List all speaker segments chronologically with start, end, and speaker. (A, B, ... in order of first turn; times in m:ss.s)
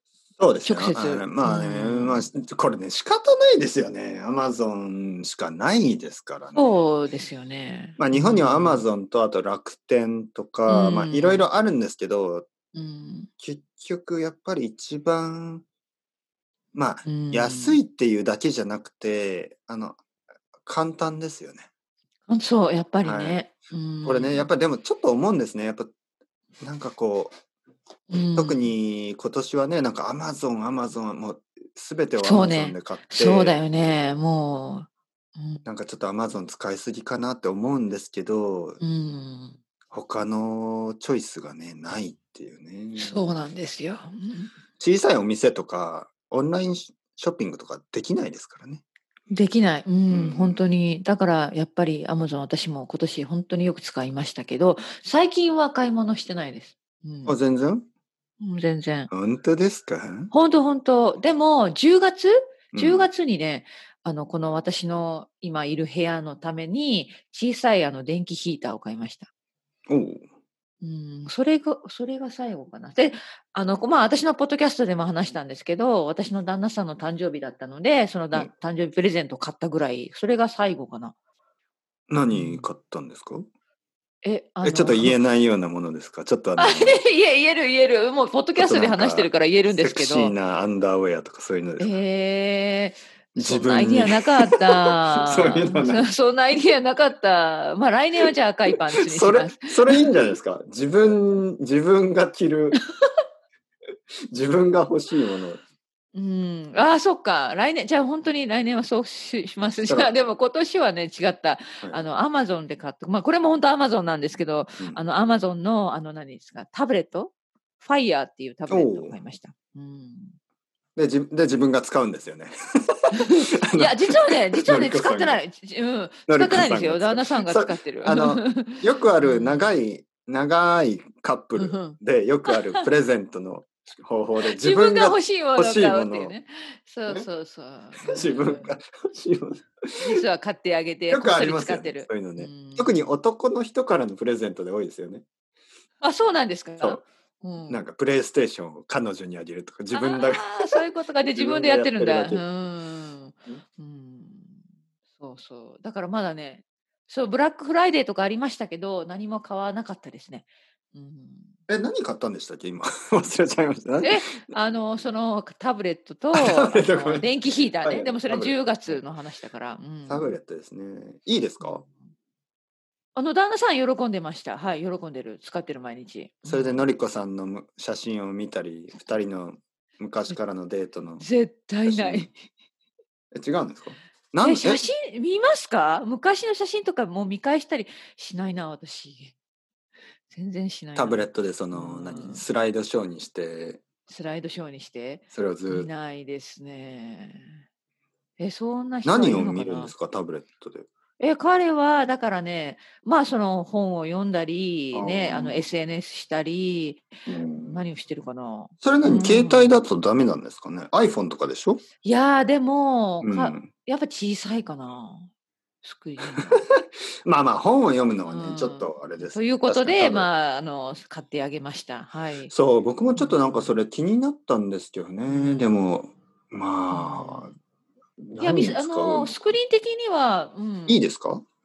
0:00.4-0:06.7 A
0:00.6-0:02.3 B
0:06.5-0:08.8 B
0:08.0-0:12.5 A
0:10.7-0:11.4 B
0:12.7-0:13.3 B
0:13.4-0:15.6 A
0:16.7-0:20.0 A
0:17.0-0:17.8 B
0:20.6-0:21.7 A
0:22.3-0:24.5 B
0:23.0-0:23.4 A
0:24.0-0:25.9 A
0:26.6-0:27.3 A
0:28.1-0:28.7 B
0:28.4-0:33.6 A
0:32.2-0:35.6 B
0:35.6-0:38.8 A
0:38.8-0:39.6 B
0:39.9-0:43.2 A
0:42.9-0:44.5 B
0:44.8-0:48.8 A
0:49.3-0:57.4 B
0:50.1-0:50.6 A
0:57.2-0:57.8 A
0:58.4-0:59.1 B
0:59.1-1:00.3 A
1:00.3-1:09.3 B
1:02.7-1:03.1 A
1:09.9-1:10.2 A
1:10.8-1:21.1 B
1:22.1-1:23.5 A
1:22.3-1:22.7 B
1:24.2-1:25.2 B
1:24.6-1:27.0 A
1:26.6-1:30.4 B
1:28.6-1:32.0 A
1:31.8-1:40.1 B
1:33.3-1:36.1 A
1:38.2-1:42.8 A
1:44.3-1:45.6 A
1:46.1-2:00.4 B
1:49.8-1:50.1 A
1:58.7-1:59.1 A
2:01.0-2:04.0 A
2:03.1-2:09.8 B
2:04.5-2:05.4 A
2:06.3-2:16.3 A
2:11.5-2:12.9 B
2:14.5-2:18.7 B
2:18.0-2:20.2 A
2:20.0-2:23.0 B
2:21.1-2:25.2 A
2:26.0-2:27.8 B
2:27.7-2:32.4 A
2:29.9-2:34.6 B
2:35.2-2:41.5 B
2:41.7-2:44.4 A
2:44.0-2:50.3 B
2:46.3-2:49.0 A
2:50.1-2:51.8 A
2:51.6-2:51.9 B
2:53.1-2:56.9 B
2:56.4-3:01.2 A
3:01.2-3:02.3 B
3:01.8-3:02.3 A
3:03.3-3:04.9 A
3:04.4-3:09.3 B
3:10.3-3:12.4 B
3:10.9-3:13.8 A
3:14.1-3:17.6 B
3:15.3-3:15.9 A
3:18.4-3:19.9 B
3:19.0-3:20.9 A
3:21.2-3:29.8 B
3:24.9-3:25.6 A
3:27.3-3:27.8 A
3:28.8-3:31.8 A
3:32.0-3:35.3 B
3:33.2-3:33.7 A
3:35.8-3:36.6 B
3:36.4-3:40.3 A
3:38.2-3:42.5 B
3:42.5-3:47.5 A
3:43.2-3:43.7 B
3:45.3-3:45.8 B
3:46.9-3:47.6 B
3:48.2-3:49.4 A
3:48.4-3:51.0 B
3:50.9-3:51.4 A